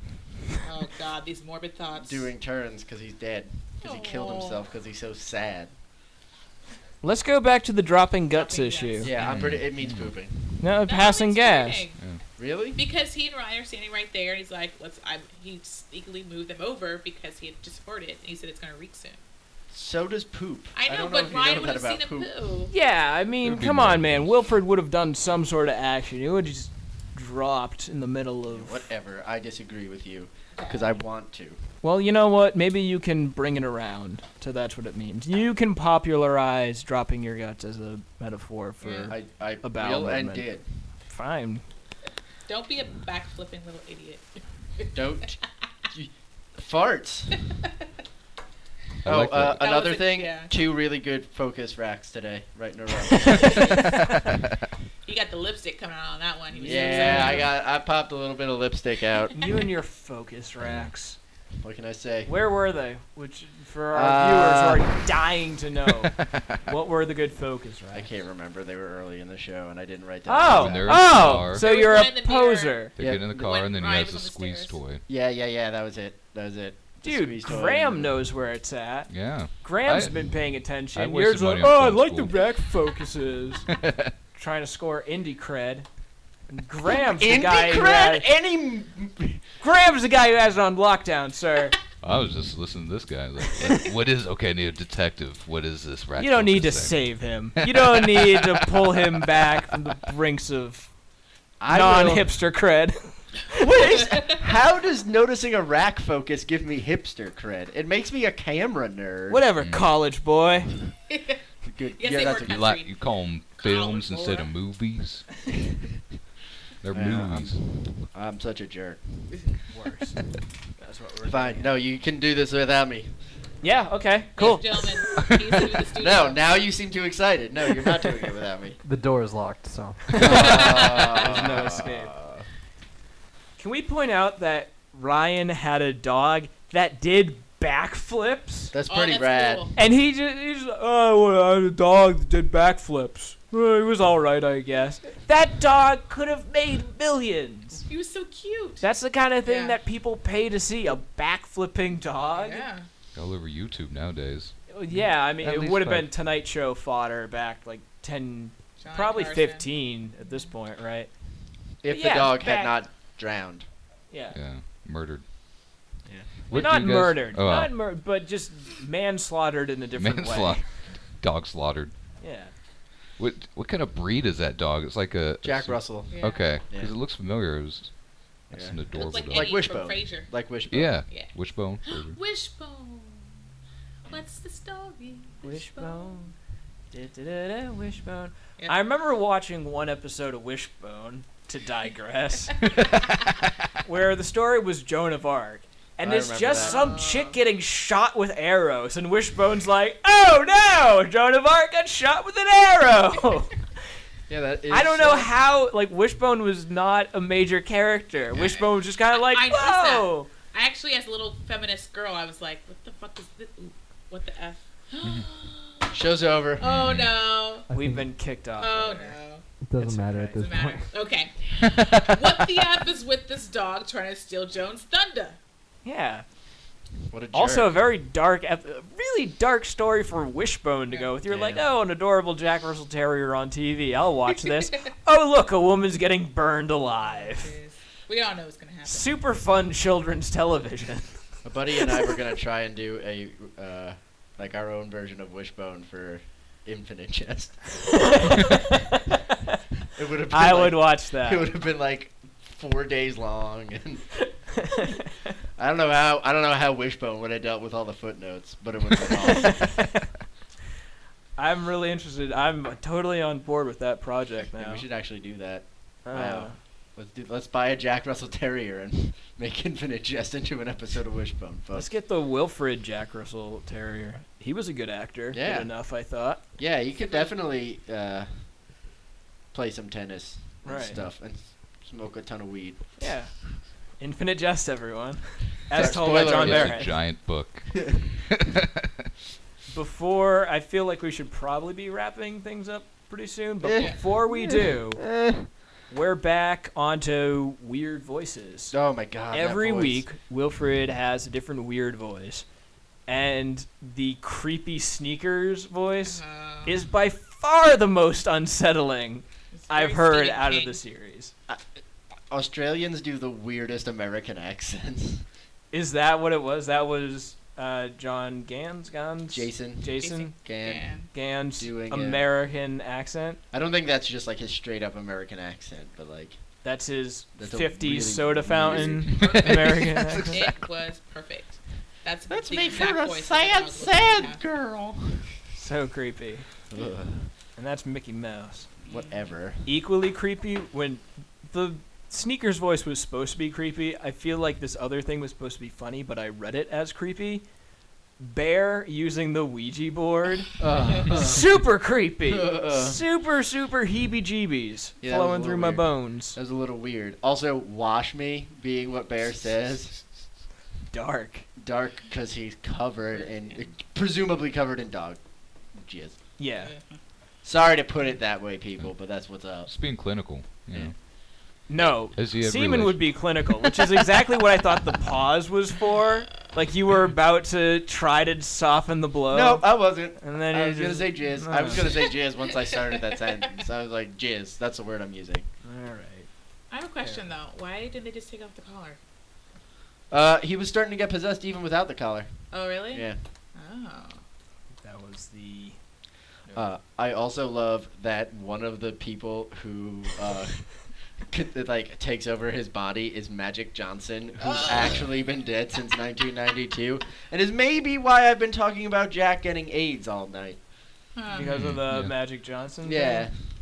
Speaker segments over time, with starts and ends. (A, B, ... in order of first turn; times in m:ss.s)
0:00.6-0:02.3 A
0:01.9-0:05.7 B
0:03.8-0:04.6 A
0:07.0-0:09.1 C
0:08.3-0:09.3 A
0:09.0-0:10.7 B
0:09.2-0:10.1 D
0:10.6-0:11.8 C
0:10.8-0:12.0 A
0:12.4-0:12.8 B
0:12.7-0:19.2 A
0:19.7-0:22.3 B
0:20.7-0:22.7 A
0:22.7-0:28.8 C
0:23.4-0:24.4 D
0:28.5-0:31.6 B
0:30.5-0:31.0 A
0:31.8-0:40.5 C
0:38.8-0:39.1 A
0:39.1-0:40.6 B
0:41.1-0:41.6 C
0:42.5-0:45.3 A
0:44.9-0:45.4 B
0:45.9-0:47.4 B
0:49.0-0:49.6 D
0:49.0-0:53.7 B
0:49.5-0:50.5 A
0:53.3-0:53.7 A
0:55.0-0:57.5 A
0:56.5-0:57.5 C
0:56.6-0:59.4 B
0:59.4-1:01.2 C
1:00.6-1:00.9 D
1:01.6-1:02.3 B
1:02.2-1:08.1 C
1:03.9-1:05.0 B
1:07.9-1:11.4 B
1:10.2-1:12.9 C
1:10.5-1:11.6 D
1:11.4-1:14.8 A
1:12.9-1:15.0 D
1:13.0-1:13.4 B
1:15.1-1:18.2 B
1:17.0-1:23.7 C
1:19.1-1:22.4 D
1:23.7-1:24.1 D
1:24.3-1:25.9 C
1:26.5-1:28.3 C
1:27.0-1:29.4 B
1:29.6-1:31.8 C
1:32.0-1:38.4 D
1:36.2-1:40.9 C
1:41.6-1:42.3 B
1:41.7-1:43.2 C
1:43.5-1:49.4 B
1:43.8-1:44.4 A
1:49.3-1:50.7 C
1:49.6-1:49.9 D
1:51.1-1:51.4 A
1:51.6-1:52.7 B
1:52.0-1:54.5 A
1:52.4-1:55.3 D
1:56.8-1:57.6 D
1:56.9-1:59.3 B
1:59.7-2:00.2 C
2:00.8-2:01.7 C
2:01.2-2:03.1 B
2:03.6-2:04.9 C
2:04.4-2:06.4 A
2:06.0-2:08.8 B
2:08.8-2:10.2 E
2:10.1-2:12.1 C
2:10.2-2:12.4 B
2:10.2-2:11.4 A
2:13.6-2:18.7 C
2:18.7-2:19.7 B
2:18.8-2:19.7 A
2:19.8-2:27.8 C
2:27.8-2:28.8 A
2:28.8-2:32.6 C
2:29.4-2:29.8 A
2:32.3-2:32.9 A
2:33.1-2:34.6 D
2:34.7-2:41.1 C
2:35.4-2:36.1 E
2:38.8-2:39.7 A
2:40.2-2:40.5 A
2:41.8-2:43.6 B
2:41.9-2:42.8 C
2:44.1-2:44.4 C
2:44.3-2:45.2 D
2:46.5-2:47.8 D
2:46.5-2:50.6 C
2:50.0-2:51.9 D
2:52.2-2:52.5 C
2:53.2-2:57.9 D
2:55.4-2:56.9 B
2:56.1-2:56.6 A
2:58.5-2:59.6 D
2:58.5-3:01.0 B
2:58.9-3:00.3 A
3:00.7-3:02.2 D
3:01.1-3:03.3 A
3:04.0-3:06.3 A
3:05.4-3:06.3 C
3:06.9-3:12.9 C
3:13.8-3:23.6 C
3:16.0-3:16.9 B
3:16.5-3:17.4 A
3:24.3-3:25.3 B
3:24.7-3:30.3 C
3:28.4-3:36.0 A
3:35.0-3:35.3 D
3:35.9-3:36.9 B
3:36.6-3:37.7 A
3:36.6-3:37.1 D
3:37.7-3:38.1 E
3:37.7-3:39.2 C
3:38.6-3:45.4 A
3:39.6-3:40.9 E
3:45.8-3:46.2 C
3:47.1-3:47.8 B
3:47.3-3:57.5 C
3:50.9-3:51.1 A
3:51.3-3:51.6 B
3:57.0-3:59.1 A
3:58.8-4:01.2 C
4:01.4-4:07.8 B
4:08.0-4:09.0 C
4:09.9-4:14.0 B
4:10.3-4:11.4 C
4:15.6-4:19.8 B
4:19.4-4:20.0 C
4:21.4-4:24.8 C
4:24.6-4:31.9 B
4:26.0-4:26.6 C
4:31.7-4:36.4 C
4:35.3-4:35.7 B
4:36.6-4:38.4 B
4:36.9-4:37.3 A
4:39.5-4:43.1 B
4:40.6-4:41.0 C
4:43.0-4:43.3 C
4:44.0-4:46.9 C
4:45.7-4:47.1 B
4:45.7-4:48.6 D
4:49.7-4:55.1 C
4:53.6-4:55.5 B
4:55.9-4:58.8 C
4:58.7-5:00.0 B
4:59.3-5:02.4 C
5:03.1-5:11.3 C
5:06.0-5:06.8 A
5:09.5-5:10.8 A
5:12.3-5:15.2 B
5:15.7-5:20.4 C
5:19.3-5:20.9 B
5:20.0-5:21.1 A
5:21.1-5:23.4 C
5:21.6-5:22.2 B
5:23.5-5:26.4 B
5:26.6-5:30.4 C
5:27.4-5:30.2 B
5:29.2-5:29.5 A
5:30.3-5:34.4 A
5:32.3-5:35.3 B
5:35.5-5:36.5 C
5:36.7-5:37.3 B
5:37.6-5:38.7 C
5:38.9-5:39.2 A
5:38.9-5:39.6 B
5:39.6-5:47.4 C
5:48.2-5:50.5 C
5:50.6-5:51.6 B
5:51.0-5:56.4 C
5:52.2-5:53.0 B
5:55.0-6:00.0 B
6:00.9-6:01.4 C
6:01.6-6:05.2 B
6:05.7-6:06.2 B
6:06.4-6:06.7 C
6:07.4-6:09.7 B
6:09.6-6:10.9 D
6:11.7-6:21.8 C
6:12.1-6:13.2 D
6:19.3-6:25.5 B
6:21.8-6:23.6 A
6:25.6-6:26.3 C
6:26.7-6:29.0 A
6:27.0-6:27.3 C
6:30.1-6:33.2 B
6:32.5-6:34.2 A
6:34.8-6:35.8 C
6:36.5-6:40.7 B
6:41.3-6:50.6 B
6:44.4-6:45.1 A
6:51.1-6:51.6 A
6:51.3-6:53.3 C
6:51.5-6:52.2 D
6:52.8-6:53.4 B